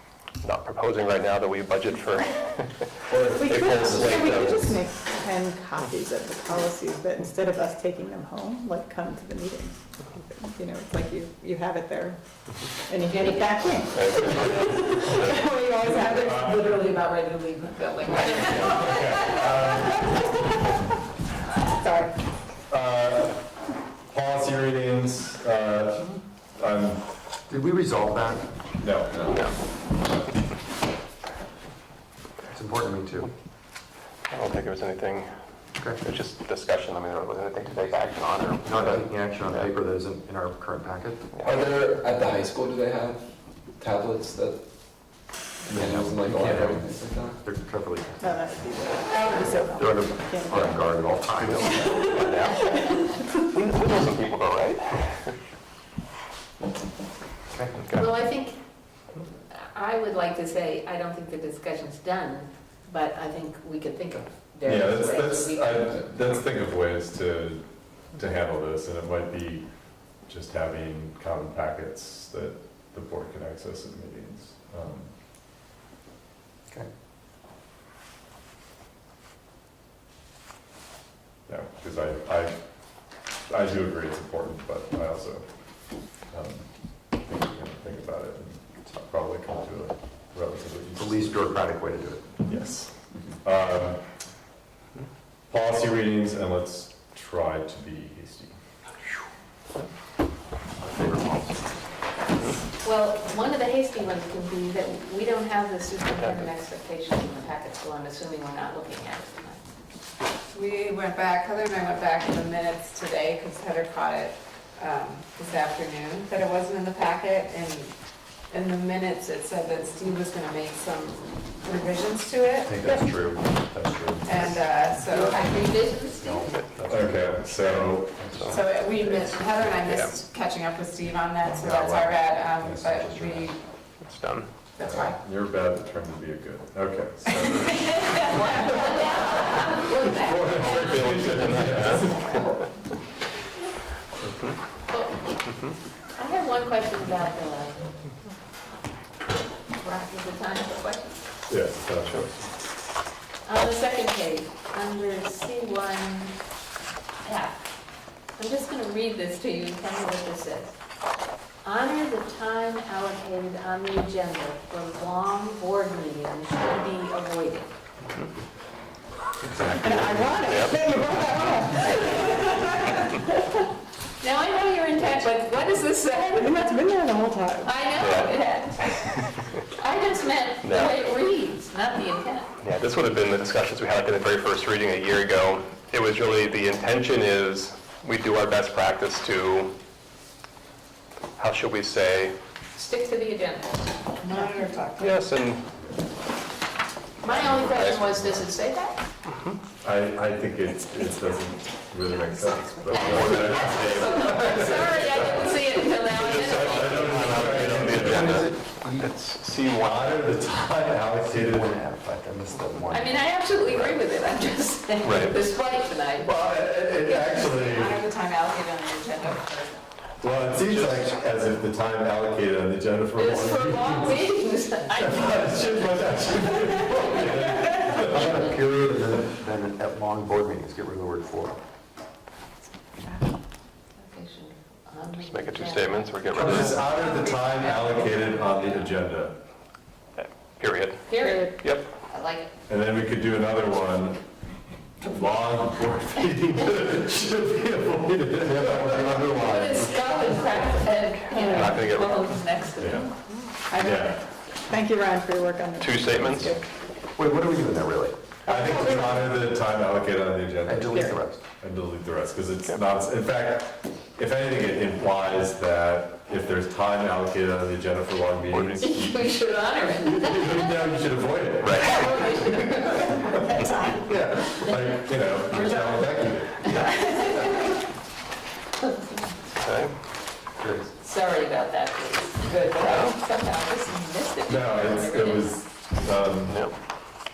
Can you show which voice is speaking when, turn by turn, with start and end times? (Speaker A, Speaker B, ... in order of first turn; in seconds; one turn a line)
Speaker A: 0.4-2.6
Speaker B: 3.1-4.8
Speaker C: 3.2-12.2
Speaker A: 3.4-4.2
Speaker C: 12.8-17.1
Speaker D: 15.4-19.5
Speaker E: 16.1-16.7
Speaker E: 18.4-20.1
Speaker F: 18.5-18.9
Speaker C: 19.8-20.2
Speaker E: 22.7-23.4
Speaker E: 24.1-27.0
Speaker B: 27.5-28.5
Speaker E: 28.8-29.4
Speaker B: 32.5-33.3
Speaker A: 34.3-35.3
Speaker A: 36.0-39.6
Speaker B: 38.6-41.3
Speaker A: 41.4-41.7
Speaker G: 41.4-43.2
Speaker G: 43.8-44.6
Speaker E: 45.7-46.0
Speaker G: 45.7-47.4
Speaker B: 45.7-46.9
Speaker A: 46.3-46.7
Speaker B: 47.4-48.4
Speaker C: 48.2-50.9
Speaker B: 49.7-52.1
Speaker A: 51.4-52.7
Speaker C: 51.6-53.0
Speaker A: 53.3-55.3
Speaker B: 57.5-57.8
Speaker F: 58.0-58.6
Speaker F: 59.5-65.9
Speaker E: 64.6-69.7
Speaker E: 70.2-75.1
Speaker E: 81.5-82.5
Speaker E: 83.5-85.4
Speaker E: 86.3-91.5
Speaker B: 91.0-92.4
Speaker E: 92.5-92.9
Speaker E: 93.4-94.0
Speaker E: 95.5-98.5
Speaker B: 100.8-101.9
Speaker F: 102.7-109.6
Speaker D: 110.5-117.9
Speaker D: 118.5-122.7
Speaker B: 122.6-124.7
Speaker D: 124.2-125.7
Speaker F: 125.1-126.4
Speaker B: 126.2-128.6
Speaker E: 126.9-128.4
Speaker D: 128.5-133.6
Speaker E: 131.6-132.2
Speaker B: 132.6-133.5
Speaker A: 134.0-134.5
Speaker D: 134.8-135.2
Speaker E: 134.8-138.6
Speaker D: 137.6-138.8
Speaker F: 138.0-140.8
Speaker A: 138.2-139.3
Speaker E: 140.1-142.5
Speaker A: 140.5-142.4
Speaker F: 144.9-145.2
Speaker F: 146.2-147.9
Speaker F: 149.8-151.3
Speaker E: 151.5-152.5
Speaker F: 153.4-156.4
Speaker F: 157.2-157.6
Speaker F: 158.3-160.8
Speaker F: 161.6-167.7
Speaker B: 169.5-170.3
Speaker C: 169.7-173.3
Speaker F: 174.2-176.5
Speaker C: 176.3-177.8
Speaker F: 177.7-178.8
Speaker A: 178.0-178.8
Speaker F: 179.8-182.5
Speaker A: 180.6-181.0
Speaker A: 182.6-189.7
Speaker A: 191.4-192.3
Speaker F: 192.7-193.9
Speaker D: 194.2-195.2
Speaker A: 195.0-195.6
Speaker F: 197.2-199.0
Speaker A: 197.3-198.4
Speaker E: 199.8-205.5
Speaker A: 202.9-205.3
Speaker G: 202.9-205.4
Speaker F: 202.9-206.5
Speaker A: 206.1-210.0
Speaker E: 206.3-208.5
Speaker B: 208.0-209.1
Speaker E: 209.7-211.7
Speaker B: 211.2-213.9
Speaker F: 212.9-216.3
Speaker A: 215.0-215.4
Speaker E: 216.2-218.0
Speaker D: 217.1-219.8
Speaker E: 220.2-224.3
Speaker F: 223.2-225.2
Speaker E: 224.9-228.6
Speaker B: 227.9-231.6
Speaker C: 232.8-233.3
Speaker F: 233.9-236.1
Speaker A: 235.2-236.9
Speaker E: 236.2-239.3
Speaker F: 236.9-238.6
Speaker A: 240.2-241.9
Speaker F: 241.0-241.5
Speaker C: 241.2-241.6
Speaker F: 242.1-242.5
Speaker E: 242.7-244.2
Speaker E: 245.0-249.9
Speaker B: 248.4-249.8
Speaker F: 249.5-253.0
Speaker A: 251.2-252.4
Speaker C: 251.3-251.8
Speaker G: 251.6-252.0
Speaker E: 252.8-253.1
Speaker C: 253.7-256.6
Speaker E: 253.7-254.2
Speaker A: 255.8-256.5
Speaker E: 256.1-256.5
Speaker B: 257.1-258.2
Speaker E: 258.4-269.4
Speaker C: 258.5-259.2
Speaker B: 260.6-261.4
Speaker F: 268.9-270.9
Speaker E: 270.0-272.4
Speaker A: 271.6-272.1
Speaker F: 271.9-273.5
Speaker E: 273.7-276.9
Speaker F: 276.6-277.8
Speaker A: 279.6-279.9
Speaker B: 280.6-280.9
Speaker F: 281.0-285.5
Speaker A: 282.5-283.2
Speaker E: 284.4-286.6